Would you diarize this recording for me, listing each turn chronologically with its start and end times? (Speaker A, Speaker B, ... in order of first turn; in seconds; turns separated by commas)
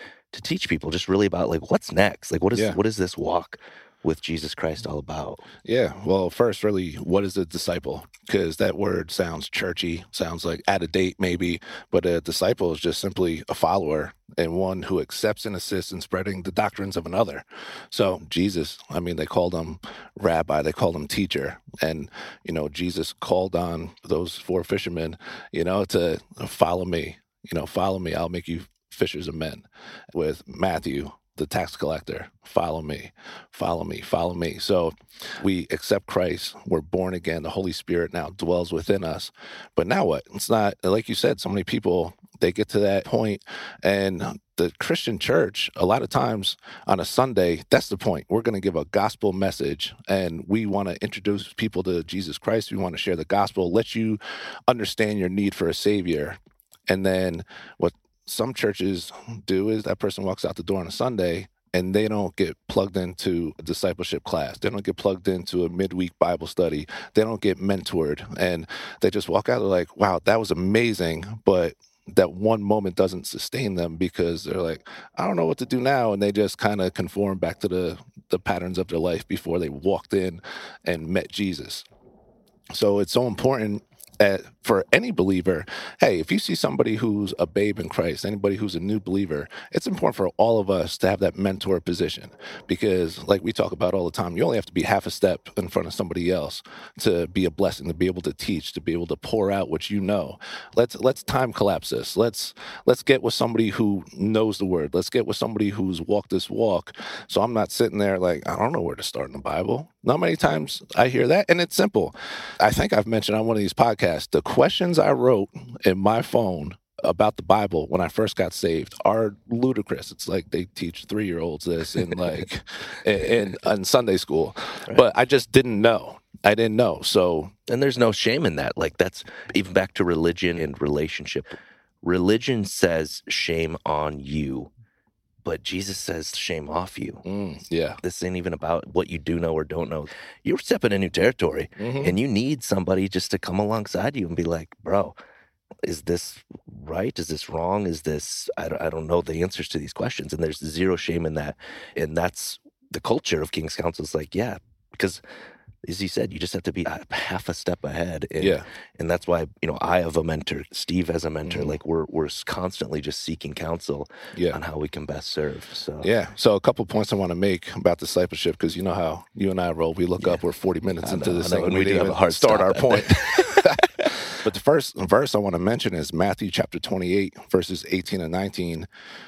Speaker A: 0.3-5.5, Speaker B: 5.6-81.8, Speaker B: 82.7-127.5, Speaker A: 122.0-122.4, Speaker A: 127.7-134.7, Speaker A: 135.4-137.2, Speaker B: 137.2-138.0, Speaker A: 138.0-145.2, Speaker B: 141.8-142.2, Speaker A: 145.8-155.2, Speaker A: 155.8-166.1, Speaker B: 158.4-158.7, Speaker B: 161.4-161.8, Speaker B: 164.3-164.6, Speaker B: 166.0-178.9, Speaker A: 171.0-174.0